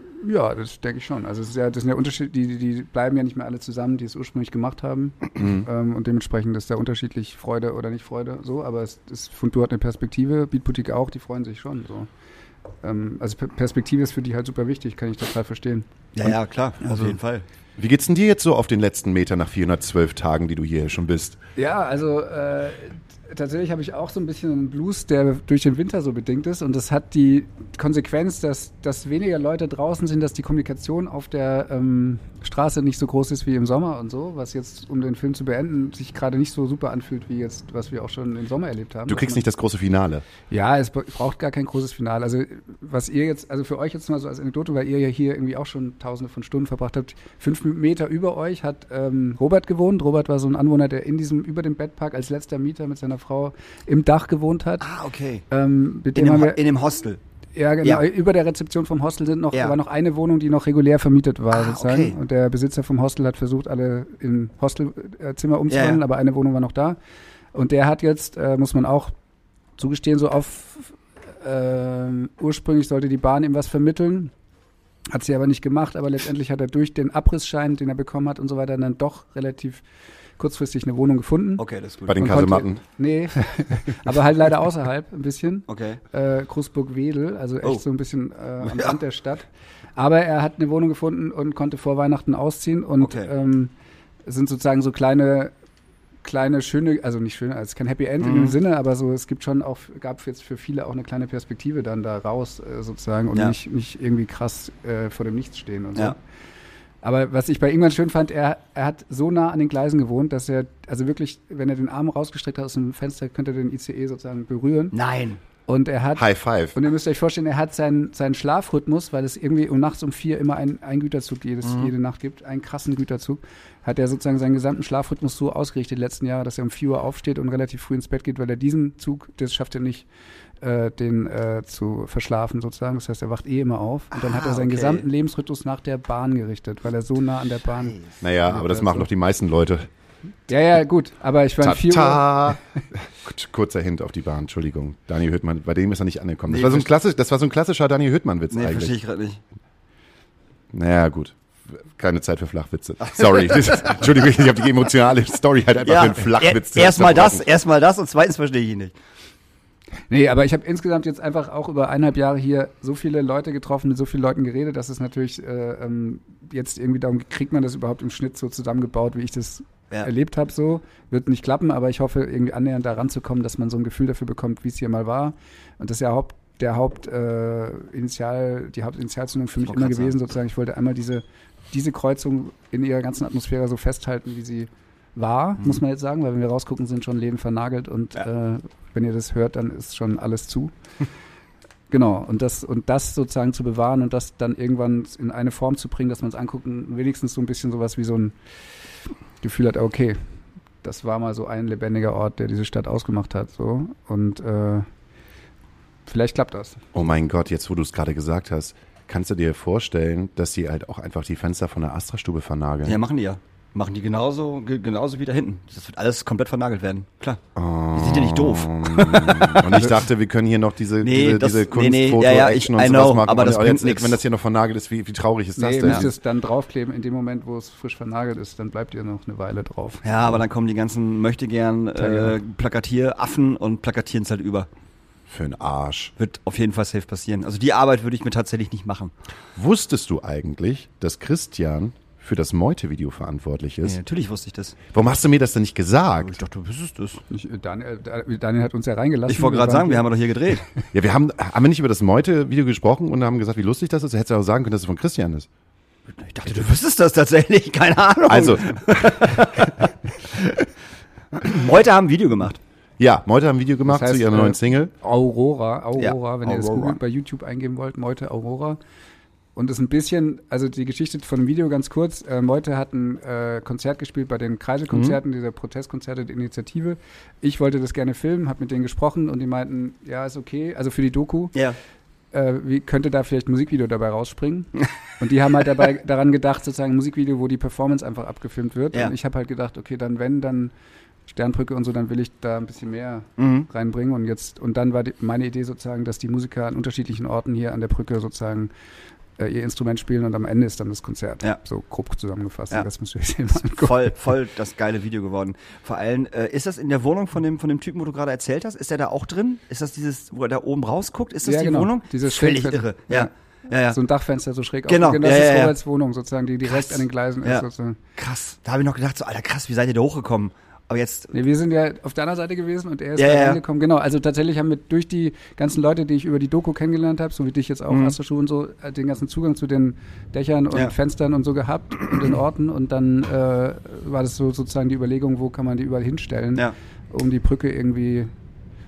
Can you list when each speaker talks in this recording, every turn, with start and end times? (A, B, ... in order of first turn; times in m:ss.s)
0:00.2-0:12.1 A
0:05.4-0:05.7 B
0:12.8-0:15.9 A
0:16.2-0:17.4 C
0:17.8-0:21.4 B
0:21.6-0:39.4 A
0:39.1-0:40.2 B
0:40.5-0:54.9 A
0:54.8-0:55.4 C
0:55.5-0:56.6 A
0:56.2-0:57.2 C
0:57.6-1:07.0 A
1:01.5-1:02.2 C
1:05.7-1:06.0 C
1:07.5-1:09.1 A
1:09.8-1:14.3 A
1:15.1-1:19.8 A
1:20.4-1:21.6 A
1:21.6-1:22.4 C
1:22.1-1:22.8 B
1:22.2-1:33.7 A
1:25.7-1:26.0 C
1:28.6-1:29.0 C
1:33.0-1:33.3 C
1:34.3-1:35.5 A
1:36.2-1:46.2 A
1:38.2-1:38.6 C
1:47.0-1:55.0 A
1:54.9-1:55.4 C
1:55.7-1:56.2 A
1:56.2-1:56.8 B
1:56.8-2:10.1 A
2:01.7-2:01.9 C
2:10.6-2:19.1 A
2:14.1-2:15.0 C
2:18.2-2:19.9 B
2:20.5-2:22.6 A
2:21.6-2:28.9 B
2:26.5-2:26.9 C
2:28.5-2:29.4 C
2:30.7-2:37.5 B
2:33.0-2:34.6 C
2:35.8-2:38.9 C
2:40.1-3:10.7 A
2:59.6-3:00.2 C
3:11.9-3:18.4 A
3:19.4-3:20.2 A
3:20.8-3:24.9 A
3:26.1-3:26.8 A
3:26.9-3:33.0 B
3:32.8-3:37.4 C
3:37.6-3:46.1 B
3:37.9-3:39.9 C
3:41.0-3:44.2 C
3:45.6-3:50.1 A
3:50.0-3:54.7 C
3:52.0-3:52.4 A
3:55.3-3:56.1 B
3:56.2-3:59.1 C
3:59.6-4:04.0 B
4:03.8-4:05.0 C
4:04.9-4:06.4 B
4:06.2-4:07.2 C
4:07.3-4:10.1 A
4:09.3-4:10.6 C
4:10.9-4:15.5 B
4:16.2-4:20.7 C
4:18.3-4:19.3 B
4:21.4-4:22.6 C
4:23.0-4:24.9 B
4:23.9-4:28.8 A
4:26.0-4:27.0 C
4:29.6-4:41.6 A
4:34.9-4:35.2 C
4:42.3-4:50.7 A
4:51.3-4:58.7 A
4:53.4-4:53.7 C
4:59.4-5:04.2 A
5:03.6-5:14.0 C
5:11.4-5:13.3 A
5:13.9-5:18.0 A
5:14.9-5:15.8 C
5:16.7-5:17.6 C
5:18.2-5:21.3 C
5:21.3-5:38.3 A
5:23.2-5:23.6 C
5:27.9-5:28.2 C